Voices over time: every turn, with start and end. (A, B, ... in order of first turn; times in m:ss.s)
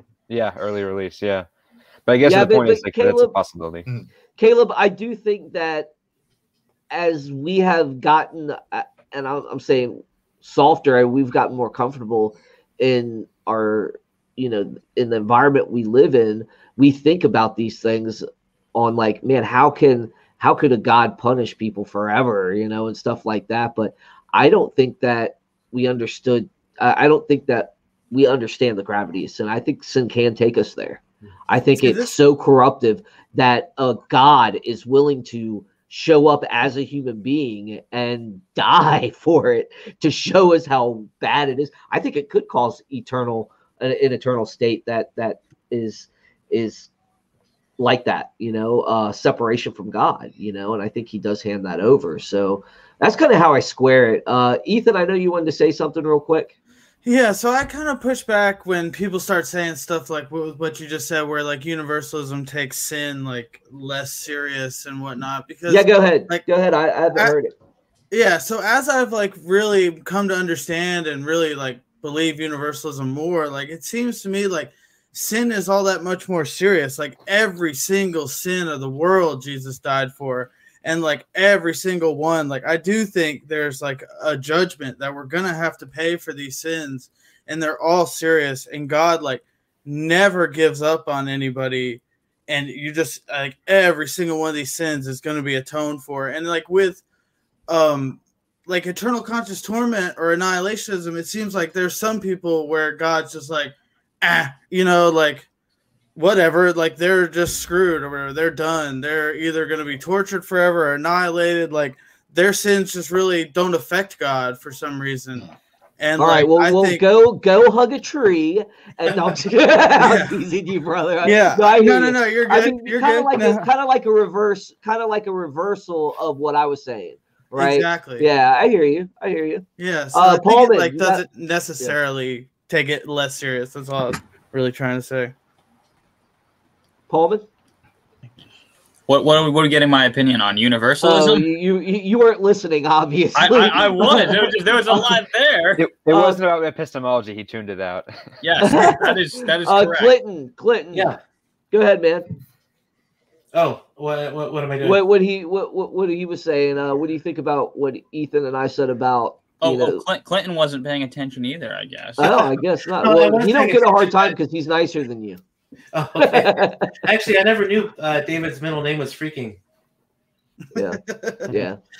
0:00.3-0:01.5 A
0:02.1-0:03.8 A
0:02.2-0:03.4 B
0:04.4-0:05.9 B
0:06.9-0:46.9 B
0:31.8-0:32.1 C
0:47.8-0:56.5 B
0:57.0-1:06.4 C
1:05.7-1:07.5 B
1:08.1-1:37.0 C
1:37.7-1:45.4 C
1:46.1-1:55.5 C
1:56.0-1:57.0 C
1:56.2-2:11.2 B
2:00.0-2:00.4 C
2:01.2-2:03.7 C
2:07.6-2:08.3 C
2:09.8-2:15.3 C
2:17.1-2:17.4 B
2:19.1-2:21.4 D
2:21.0-2:25.1 B
2:23.4-2:25.8 D
2:25.8-2:28.3 A
2:26.1-2:26.4 B
2:28.4-2:30.2 D
2:28.6-2:31.2 B
2:30.9-2:31.2 E
2:31.7-2:32.3 B
2:33.5-2:35.0 E
2:34.8-2:40.0 B
2:39.6-2:42.5 D
2:42.2-2:45.4 B
2:42.2-2:44.3 E
2:45.9-2:49.6 E
2:46.2-2:46.9 B
2:50.7-2:51.5 C
2:50.7-2:51.8 B